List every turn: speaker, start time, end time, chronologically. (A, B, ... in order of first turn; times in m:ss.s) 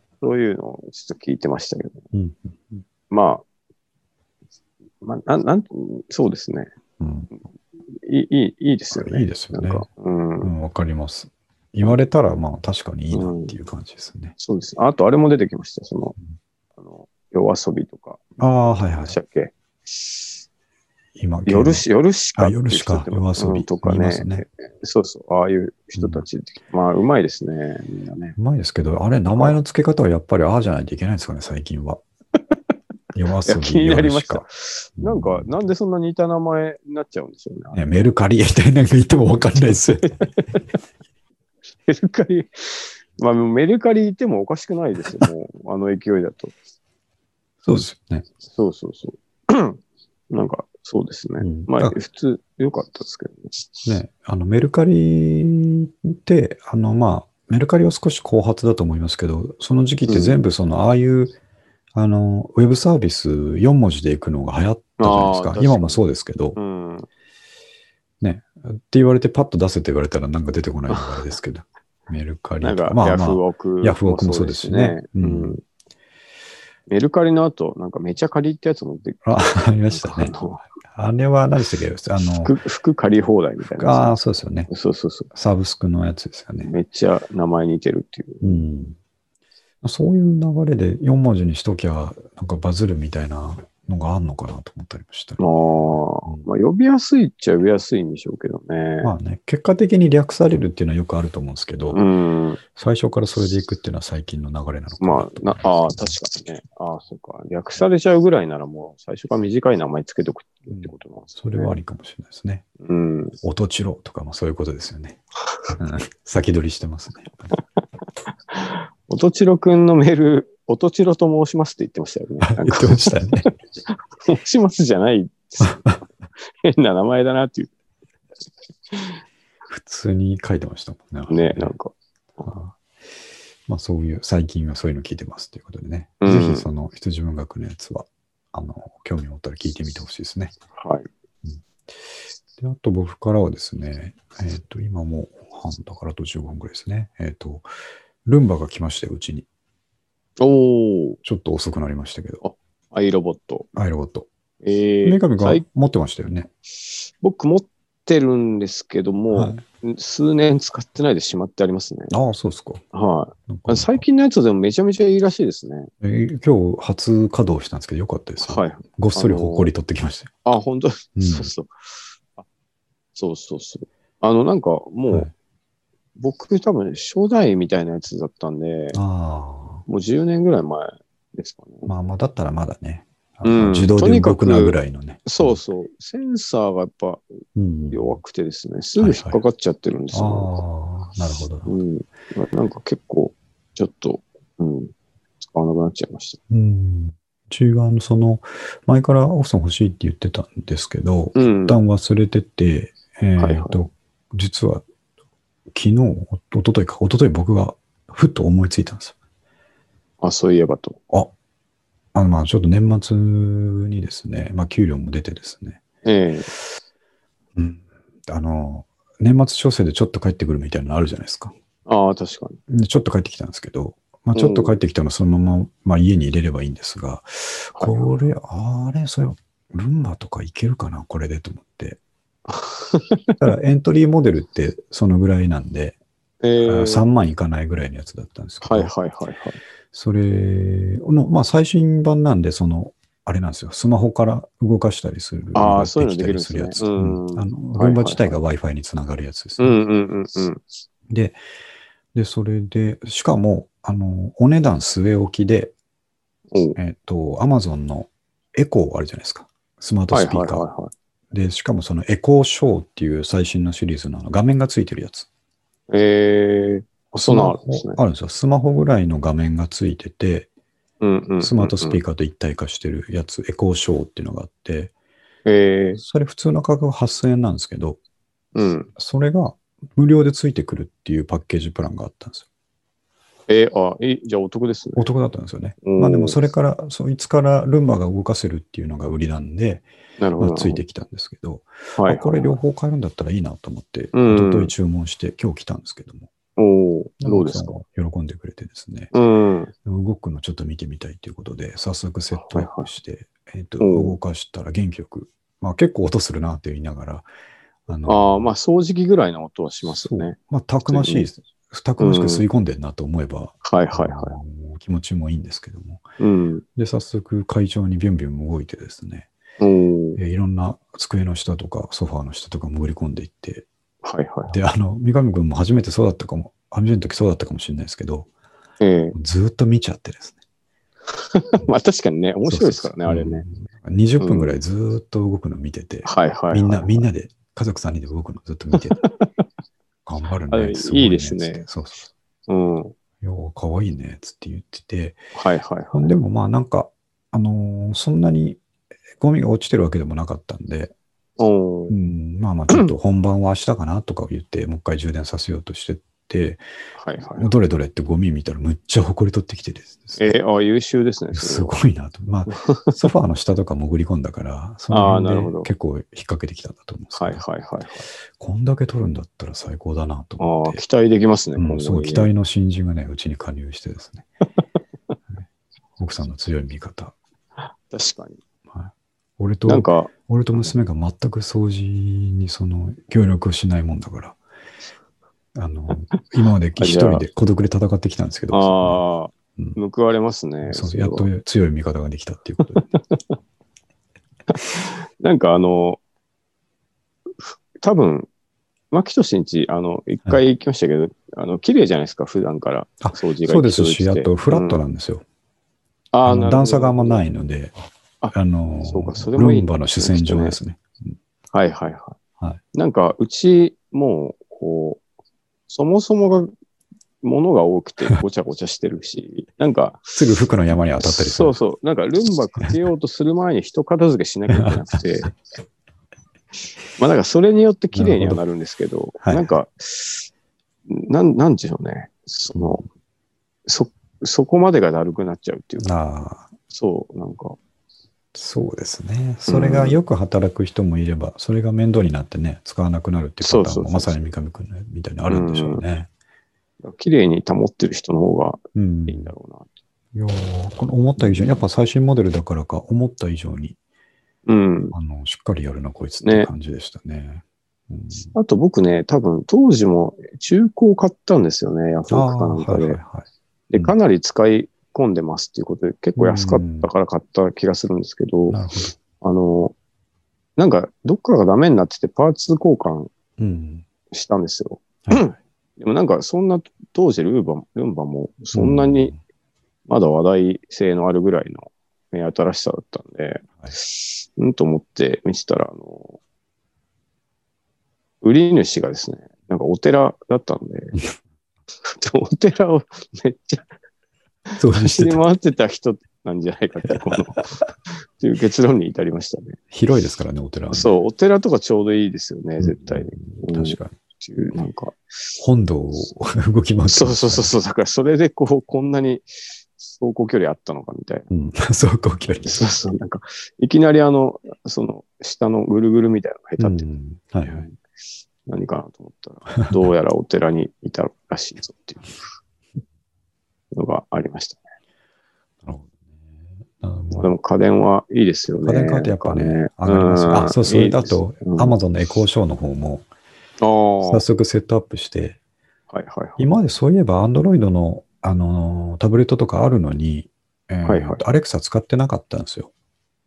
0:00.2-0:02.0 A
0:02.1-0:02.8 B
0:03.1-0:03.4 A
0:05.0-0:06.7 A
0:07.0-0:07.3 B
0:07.9-0:10.5 A
0:08.9-0:09.8 B
0:10.4-0:14.3 B
0:13.1-0:13.5 A
0:14.4-0:16.2 A
0:16.8-0:18.2 A
0:18.4-0:19.2 B
0:18.8-0:20.4 A
0:21.2-0:24.4 B
0:21.4-0:28.4 A
0:26.0-0:26.2 B
0:28.4-0:32.0 B
0:33.1-0:34.4 B
0:33.4-0:37.8 A
0:35.0-0:35.6 B
0:37.7-0:40.2 B
0:40.2-0:40.6 A
0:41.8-0:46.5 A
0:47.6-0:48.2 B
0:48.5-0:49.8 A
0:50.3-0:53.9 A
0:51.4-0:52.0 B
0:53.8-1:01.4 B
1:00.0-1:00.4 A
1:01.9-1:06.6 B
1:05.0-1:06.0 A
1:06.6-1:07.1 A
1:08.2-1:15.6 B
1:10.9-1:11.2 A
1:12.6-1:15.6 A
1:16.9-1:19.2 A
1:19.2-1:20.3 B
1:19.9-1:20.6 A
1:20.8-1:22.5 B
1:22.4-1:24.2 A
1:23.7-1:24.7 B
1:24.7-1:25.3 A
1:25.3-1:26.7 B
1:26.6-1:28.6 A
1:28.4-1:29.0 B
1:29.8-1:36.5 B
1:35.4-1:39.1 A
1:39.0-1:42.0 B
1:41.9-1:42.6 A
1:42.7-1:45.6 B
1:45.0-1:51.8 A
1:50.7-1:52.6 B
1:52.8-1:53.4 A
1:53.4-1:55.2 B
1:55.8-1:57.6 B
1:58.5-2:03.5 A
2:02.4-2:03.5 B
2:04.2-2:05.8 A
2:05.6-2:06.0 B
2:06.6-2:07.7 A
2:08.9-2:09.2 A
2:09.7-2:11.7 B
2:11.3-2:12.5 A
2:12.4-2:12.8 B
2:13.7-2:20.5 B
2:16.2-2:16.7 A
2:20.8-2:21.1 A
2:22.6-2:27.7 B
2:28.2-2:29.4 B
2:30.4-2:31.2 A
2:31.2-2:32.4 B
2:32.4-2:33.7 A
2:33.7-2:34.3 B
2:34.6-2:35.6 A
2:35.0-2:36.5 B
2:36.9-2:42.1 A
2:39.3-2:39.6 B
2:42.1-2:42.8 B
2:42.9-2:45.9 A
2:43.5-2:44.0 B
2:46.0-2:50.3 B
2:48.4-2:49.7 A
2:50.4-2:51.7 A
2:51.2-2:51.5 B
2:53.1-2:55.3 A
2:56.2-2:59.0 A
2:58.9-2:59.8 B
2:59.8-3:01.9 A
3:01.8-3:05.6 B
3:03.4-3:07.2 A
3:07.6-3:08.2 B
3:07.9-3:10.6 A
3:09.0-3:09.4 B
3:10.1-3:11.7 B
3:11.6-3:16.4 A
3:16.5-3:24.8 B
3:21.3-3:21.8 A
3:23.4-3:23.8 A
3:25.7-3:29.1 B
3:30.2-3:31.0 A
3:32.1-3:35.8 B
3:36.0-3:36.5 A
3:37.6-3:41.5 B
3:41.9-3:42.6 A
3:42.7-3:52.0 B
3:44.3-3:44.8 A
3:47.8-3:48.1 A
3:52.5-3:53.4 A
3:53.4-3:56.0 B
3:56.4-3:57.1 A
3:56.6-3:58.9 B
3:58.6-3:59.6 A
3:59.9-4:09.8 B
4:05.5-4:08.4 A
4:09.6-4:10.6 A
4:11.1-4:11.4 B
4:12.1-4:15.7 B
4:16.8-4:20.6 B
4:20.1-4:20.9 A
4:21.3-4:25.3 B
4:25.9-4:28.0 A
4:27.2-4:30.5 B
4:31.0-4:32.0 A
4:31.4-4:34.9 B
4:35.4-4:36.0 A
4:36.0-4:38.0 B
4:38.5-4:38.9 A
4:39.0-4:42.5 B
4:43.5-4:45.0 A
4:45.0-4:49.9 B
4:45.8-4:46.4 A
4:50.2-4:50.8 A
4:50.4-4:56.3 B
4:52.0-4:52.6 A
4:54.1-4:54.7 A
4:56.6-4:57.8 A
4:57.2-4:59.1 B
4:59.1-4:59.7 A
4:59.8-5:07.3 B
5:02.3-5:02.9 A
5:03.8-5:04.2 A
5:07.9-5:08.5 B
5:08.0-5:10.4 A
5:09.8-5:16.0 B
5:10.9-5:11.3 A
5:12.0-5:12.4 A
5:13.6-5:14.4 A
5:16.2-5:16.6 A
5:16.8-5:19.3 B
5:19.6-5:20.2 A
5:20.2-5:23.6 B
5:24.0-5:24.6 A
5:24.5-5:28.3 B
5:28.8-5:29.1 A
5:29.1-5:30.4 B
5:31.1-5:33.4 A
5:32.4-5:39.0 B
5:34.2-5:34.6 A
5:36.0-5:37.0 A
5:38.7-5:39.3 A
5:40.0-5:42.1 B
5:40.5-5:41.6 A
5:42.5-5:42.9 A
5:43.2-5:45.2 B
5:45.4-5:46.1 A
5:45.9-5:48.6 B
5:49.2-5:50.9 B
5:51.4-5:51.9 A
5:51.9-5:56.6 B
5:57.0-5:57.5 A
5:57.4-6:00.3 B
6:00.2-6:01.7 A
6:01.3-6:07.4 B
6:02.5-6:03.0 A
6:04.9-6:05.7 A
6:07.1-6:08.1 A
6:08.4-6:10.8 B
6:10.4-6:12.3 A
6:11.6-6:14.3 B
6:16.0-6:17.1 B
6:17.9-6:18.4 A
6:18.7-6:24.4 B
6:19.6-6:20.7 A
6:25.6-6:29.0 B
6:26.8-6:27.2 A
6:28.5-6:31.3 A
6:30.7-6:32.9 B
6:32.9-6:33.4 A
6:34.5-6:36.0 A
6:37.4-6:38.3 A
6:38.9-6:44.8 A
6:43.0-6:45.2 B
6:46.1-6:47.2 A
6:46.2-6:47.7 B
6:48.2-6:50.6 A
6:48.3-6:51.2 B
6:51.5-6:52.2 A
6:52.7-6:55.0 A
6:55.7-6:56.5 A
6:57.2-7:00.2 A
7:00.1-7:01.6 B
7:01.0-7:05.3 A
7:04.5-7:05.0 B
7:07.0-7:10.3 A
7:07.9-7:08.4 B
7:09.2-7:09.5 B
7:10.9-7:12.8 A
7:12.5-7:12.8 B
7:13.6-7:15.9 A
7:15.8-7:16.5 B
7:16.7-7:17.6 A
7:18.3-7:26.1 B
7:19.5-7:20.0 A
7:23.4-7:24.3 A
7:25.3-7:25.8 A
7:26.8-7:29.7 A
7:28.7-7:29.3 B
7:30.1-7:33.8 B
7:31.2-7:31.5 A
7:34.4-7:34.9 A
7:34.9-7:38.3 B
7:36.2-7:36.5 A
7:38.3-7:43.0 A
7:42.1-7:43.9 B
7:43.7-7:48.6 A
7:46.2-7:46.9 B
7:48.5-7:49.0 B
7:49.2-7:49.7 A
7:50.6-7:53.1 A
7:53.4-7:53.8 B
7:54.1-7:59.1 A
7:58.5-7:59.2 B
7:59.9-8:06.2 A
8:08.2-8:11.0 A
8:11.8-8:13.6 A
8:14.5-8:17.5 A
8:14.6-8:15.2 B
8:18.2-8:19.6 A
8:19.7-8:20.9 B
8:20.7-8:25.4 A
8:22.6-8:24.0 B
8:25.4-8:27.5 B
8:26.9-8:31.3 A
8:31.3-8:32.6 B
8:32.4-8:36.9 A
8:36.6-8:37.7 B
8:37.5-8:37.8 A
8:38.5-8:42.2 A
8:39.6-8:39.9 B
8:43.7-8:44.6 A
8:45.6-8:46.0 B
8:46.8-8:47.3 B
8:47.1-8:51.8 A
8:48.6-8:53.1 B
8:53.6-8:54.2 A
8:54.0-8:55.4 B
8:55.9-8:56.5 A
8:56.4-9:02.7 B
9:00.8-9:01.2 A